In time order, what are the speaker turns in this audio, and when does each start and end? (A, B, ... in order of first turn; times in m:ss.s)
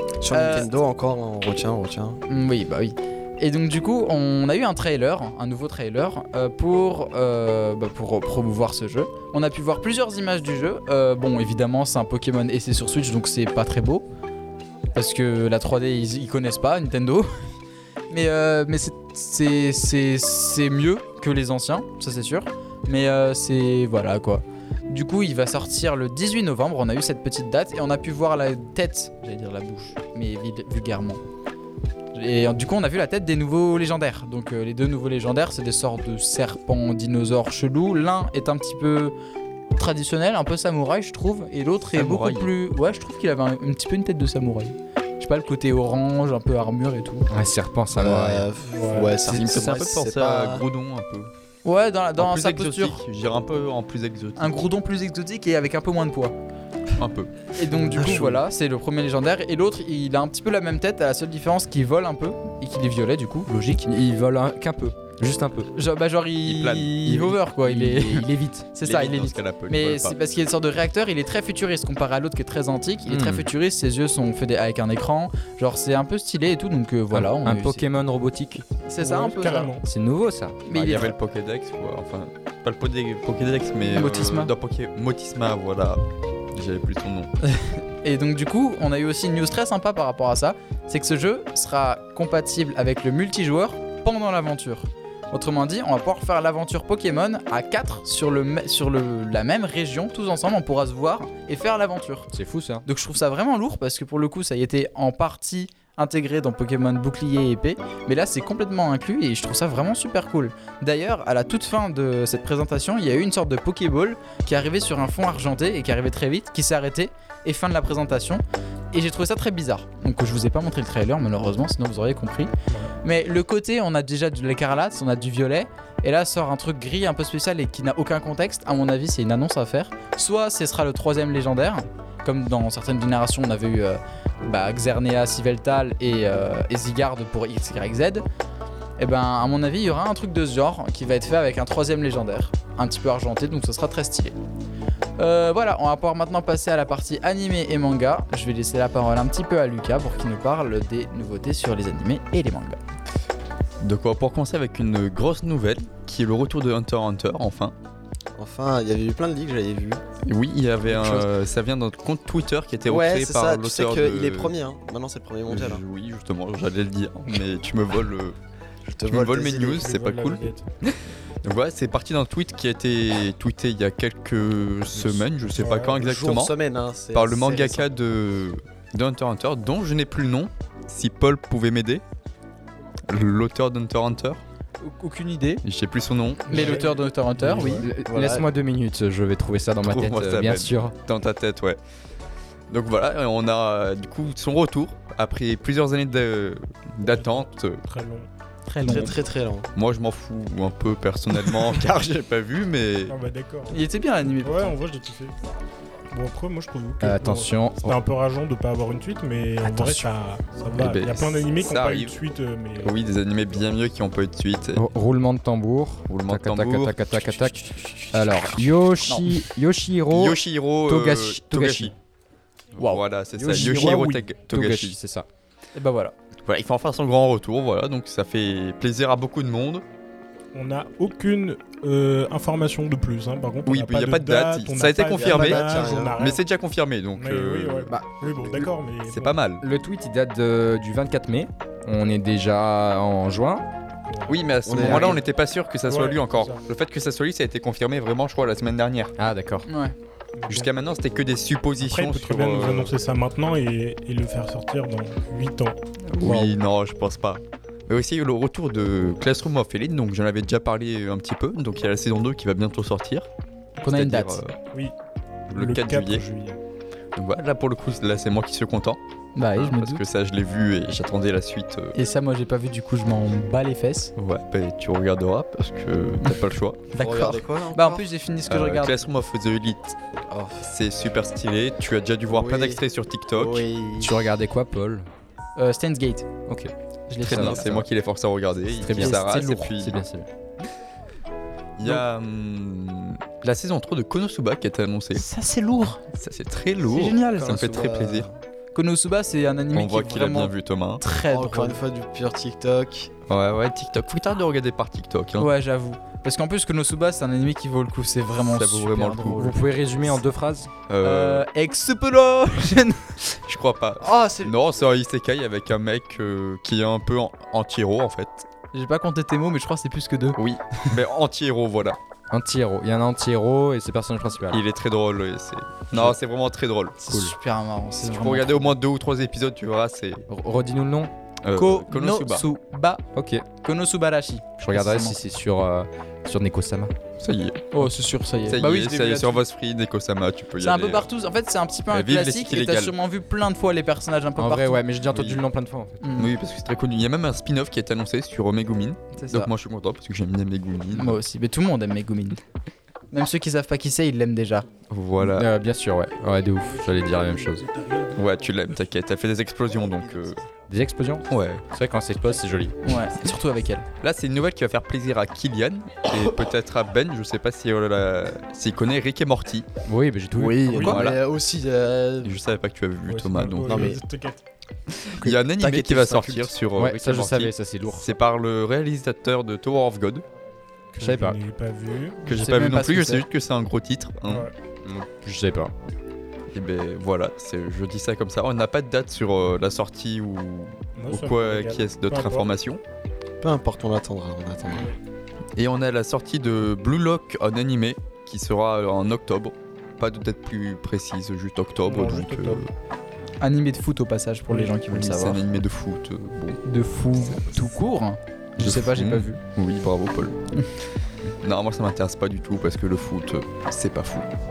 0:00.2-0:02.2 A
0:00.3-0:00.7 B
0:02.3-0:14.1 B
0:15.0-0:17.3 B
0:18.1-0:31.2 B
0:32.1-0:39.2 B
0:39.8-0:47.3 B
0:41.9-0:42.5 C
0:47.3-0:48.5 D
0:47.9-0:50.6 A
0:48.7-0:49.2 E
0:49.2-0:51.3 C
0:51.6-0:53.0 B
0:52.2-0:54.6 C
0:54.4-0:56.4 B
0:57.0-0:57.5 C
0:57.6-1:03.9 B
0:58.0-0:58.4 A
1:03.8-1:05.7 D
1:05.8-1:17.9 B
1:06.5-1:07.2 C
1:07.1-1:08.7 D
1:08.8-1:10.2 C
1:13.1-1:13.5 D
1:17.1-1:18.7 D
1:18.9-1:19.8 B
1:19.0-1:19.9 E
1:19.8-1:20.6 D
1:20.7-1:21.2 B
1:20.7-1:27.3 C
1:23.9-1:24.5 B
1:27.4-1:42.3 B
1:42.3-1:42.8 D
1:42.8-2:18.2 B
2:19.0-2:24.4 B
2:25.2-2:32.8 B
2:33.8-2:37.7 C
2:38.4-2:40.0 A
2:40.2-2:44.5 C
2:42.9-2:45.8 A
2:45.5-2:48.4 C
2:48.9-2:49.9 A
2:49.1-2:56.5 C
2:49.7-2:50.6 E
2:55.0-2:57.9 A
2:55.6-2:56.0 E
2:57.1-3:02.0 C
3:03.1-3:04.4 C
3:04.8-3:05.6 B
3:05.6-3:06.9 C
3:06.5-3:07.9 B
3:06.5-3:07.9 E
3:07.6-3:11.0 D
3:08.0-3:08.5 A
3:09.8-3:11.8 C
3:12.7-3:17.8 C
3:17.1-3:18.3 E
3:18.7-3:19.2 B
3:18.8-3:19.7 A
3:19.8-3:23.2 C
3:23.1-3:23.7 E
3:23.7-3:24.7 B
3:24.4-3:25.3 E
3:26.1-3:33.0 E
3:27.0-3:28.0 D
3:29.6-3:30.1 D
3:30.8-3:32.2 C
3:32.8-3:34.8 C
3:34.8-3:41.9 D
3:36.1-3:37.5 C
3:39.0-3:39.4 B
3:40.1-3:42.0 C
3:42.8-3:45.0 C
3:43.4-3:44.2 E
3:43.4-3:45.3 D
3:45.8-3:46.1 B
3:46.5-3:49.8 C
3:50.5-3:56.4 E
3:53.6-3:58.0 C
3:55.1-3:56.2 A
3:57.2-3:59.4 E
3:59.1-3:59.6 C
3:59.6-4:03.6 D
4:04.1-4:04.4 E
4:04.3-4:09.2 C
4:04.6-4:05.2 A
4:04.8-4:05.2 D
4:05.9-4:06.6 E
4:09.2-4:09.7 D
4:09.7-4:10.0 B
4:10.4-4:10.7 E
4:10.5-4:12.9 C
4:11.8-4:15.8 E
4:16.1-4:23.3 C
4:16.2-4:16.6 D
4:23.8-4:24.6 C
4:23.8-4:24.4 B
4:25.5-4:26.6 E
4:25.5-4:26.2 C
4:27.2-4:29.0 C
4:29.4-4:30.0 B
4:29.6-4:32.0 C
4:32.0-4:34.1 B
4:34.2-4:36.9 C
4:36.9-4:38.1 A
4:36.9-4:39.0 B
4:38.5-4:40.0 C
4:40.3-4:40.6 A
4:40.6-4:43.7 C
4:42.3-4:42.8 A
4:43.3-4:44.2 A
4:44.0-4:45.1 D
4:45.6-4:46.3 B
4:46.5-4:46.7 D
4:47.1-4:47.8 B
4:47.2-4:50.0 C
4:47.2-4:47.8 D
4:48.8-4:50.3 D
4:49.0-4:49.7 B
4:51.8-4:55.2 C
4:55.2-4:56.0 B
4:56.1-4:58.3 C
4:56.9-4:57.7 B
4:57.4-4:58.4 A
4:58.8-5:01.8 B
4:59.7-5:01.0 C
5:01.3-5:03.1 A
5:03.3-5:05.5 C
5:05.4-5:10.2 B
5:08.4-5:09.6 C
5:09.3-5:10.7 D
5:10.9-5:11.5 C
5:11.0-5:13.4 B
5:13.5-5:18.5 C
5:14.0-5:14.5 B
5:18.7-5:21.0 B
5:20.4-5:22.0 C
5:22.3-5:24.6 D
5:24.5-5:27.0 C
5:27.0-5:28.8 B
5:27.1-5:27.4 D
5:28.0-5:30.3 C
5:30.3-5:31.1 D
5:31.4-5:32.5 C
5:31.5-5:33.0 B
5:33.1-5:33.5 D
5:33.6-5:35.2 B
5:34.6-5:37.0 D
5:37.2-5:37.9 C
5:37.7-5:39.4 B
5:38.4-5:41.1 C
5:40.6-5:44.8 B
5:41.9-5:42.9 C
5:44.4-5:46.0 D
5:45.1-5:45.4 C
5:46.0-5:46.3 B
5:46.2-5:51.2 C
5:49.1-5:49.5 B
5:50.9-5:52.4 B
5:53.1-5:54.7 B
5:54.9-5:55.5 C
5:55.3-5:57.7 D
5:57.2-5:58.2 E
5:58.2-6:00.4 C
5:59.8-6:00.2 A
6:00.7-6:02.9 D
6:01.3-6:01.6 C
6:02.8-6:03.9 B
6:04.0-6:09.7 C
6:09.8-6:10.8 D
6:10.3-6:12.4 A
6:10.8-6:11.2 C
6:12.2-6:14.0 C
6:13.1-6:14.4 E
6:13.6-6:14.0 A
6:14.9-6:20.2 C
6:15.2-6:16.5 A
6:16.8-6:18.2 D
6:20.9-6:22.3 E
6:21.0-6:21.4 D
6:22.3-6:24.5 C
6:22.3-6:23.2 B
6:24.2-6:24.5 E
6:24.8-6:25.7 D
6:26.5-6:32.8 C
6:31.0-6:32.5 E
6:33.4-6:35.0 A
6:35.6-6:42.7 C
6:41.9-6:42.6 E
6:43.4-6:45.4 B
6:44.9-6:46.6 C
6:46.6-6:49.4 B
6:48.6-6:50.4 C
6:51.4-6:54.3 C